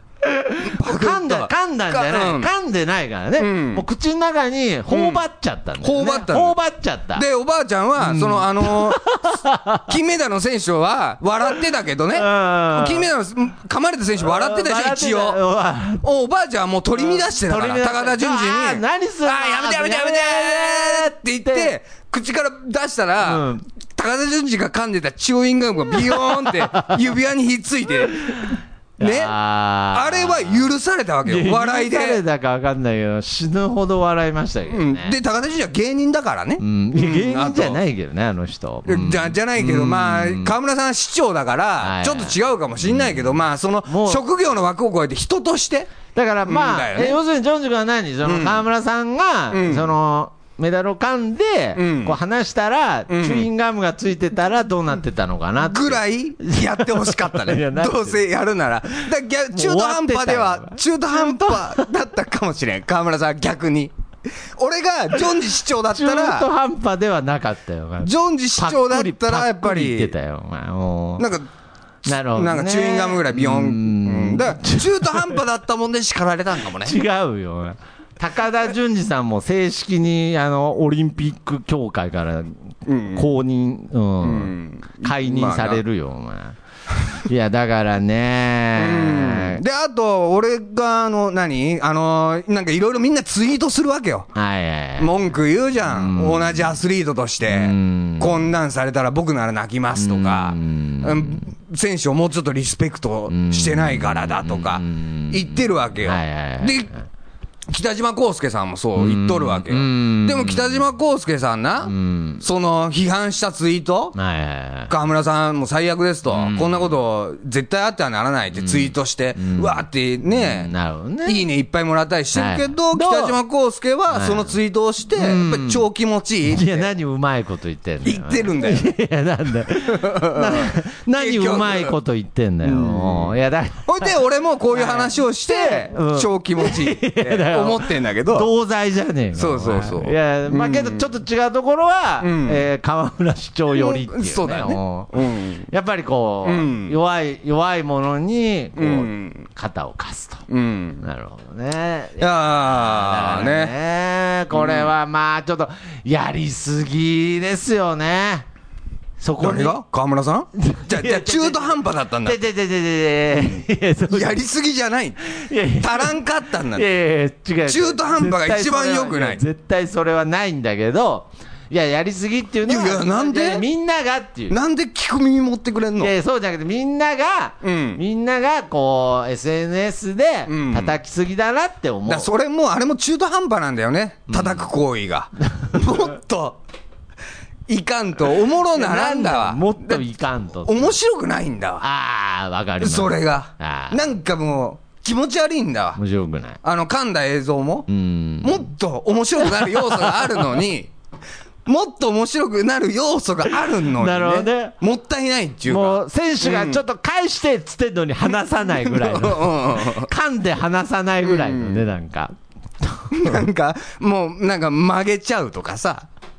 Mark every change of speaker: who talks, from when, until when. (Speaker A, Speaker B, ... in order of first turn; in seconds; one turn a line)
Speaker A: 0.2-7.2
Speaker B: 0.6-2.5
Speaker B: 3.4-3.8
Speaker B: 4.9-5.2
Speaker B: 5.8-6.6
Speaker B: 7.2-9.0
Speaker A: 8.0-9.9
Speaker B: 9.9-15.4
Speaker A: 12.1-13.1
Speaker A: 14.2-16.0
Speaker B: 16.0-23.4
Speaker A: 17.0-21.8
Speaker A: 23.2-23.6
Speaker B: 23.9-29.4
Speaker A: 25.9-27.0
Speaker A: 28.1-30.7
Speaker B: 29.9-32.2
Speaker A: 31.2-35.1
Speaker B: 34.7-37.8
Speaker A: 36.6-40.5
Speaker B: 38.9-46.0
Speaker A: 41.8-42.4
Speaker A: 42.9-43.3
Speaker A: 43.9-44.2
Speaker A: 46.1-58.2
Speaker B: 46.5-47.2
Speaker B: 48.2-48.6
Speaker B: 49.5-49.9
Speaker B: 51.8-52.2
Speaker B: 53.1-53.5
Speaker B: 55.6-63.9
Speaker A: 59.5-61.9
Speaker B: 64.6-66.5
Speaker A: 65.9-71.3
Speaker B: 68.0-70.1
Speaker B: 71.2-71.5
Speaker A: 72.1-75.4
Speaker B: 72.3-77.0
Speaker A: 76.8-86.6
Speaker B: 82.9-83.3
Speaker B: 84.2-85.8
Speaker A: 87.2-89.6
Speaker B: 88.8-94.3
Speaker A: 94.3-95.3
Speaker B: 95.0-106.9
Speaker A: 95.8-96.8
Speaker A: 97.5-98.5
Speaker A: 100.0-101.5
Speaker A: 103.3-107.0
Speaker B: 107.7-114.2
Speaker A: 109.0-110.9
Speaker A: 111.9-112.4
Speaker A: 114.2-114.9
Speaker B: 114.9-120.7
Speaker A: 116.3-116.9
Speaker A: 118.5-121.5
Speaker B: 121.2-126.9
Speaker A: 122.3-123.4
Speaker A: 124.1-124.5
Speaker A: 125.2-125.8
Speaker A: 126.5-134.2
Speaker B: 128.0-128.9
Speaker B: 129.7-131.9
Speaker B: 132.6-133.3
Speaker B: 133.9-138.5
Speaker A: 134.7-150.4
Speaker B: 139.3-141.1
Speaker B: 142.2-142.6
Speaker B: 143.7-145.7
Speaker B: 146.4-146.9
Speaker B: 148.8-149.5
Speaker B: 150.5-151.0
Speaker A: 151.0-158.5
Speaker B: 152.2-153.7
Speaker B: 154.5-154.9
Speaker A: 159.2-159.8
Speaker B: 159.4-162.4
Speaker A: 160.6-164.4
Speaker B: 164.1-165.2
Speaker A: 165.2-174.6
Speaker B: 165.8-166.9
Speaker B: 167.7-169.4
Speaker B: 172.7-173.7
Speaker B: 174.5-176.1
Speaker A: 176.0-182.3
Speaker B: 177.6-178.0
Speaker B: 180.5-181.0
Speaker B: 182.1-186.6
Speaker A: 184.3-184.7
Speaker B: 187.7-190.1
Speaker A: 188.7-191.0
Speaker B: 190.6-191.8
Speaker A: 191.8-194.1
Speaker B: 192.8-196.0
Speaker A: 196.0-196.6
Speaker B: 196.6-197.9
Speaker A: 197.9-198.7
Speaker B: 198.4-200.9
Speaker A: 199.4-200.5
Speaker B: 201.7-206.8
Speaker A: 203.9-204.8
Speaker A: 205.7-213.4
Speaker B: 208.7-210.1
Speaker B: 211.2-211.8
Speaker B: 213.1-216.1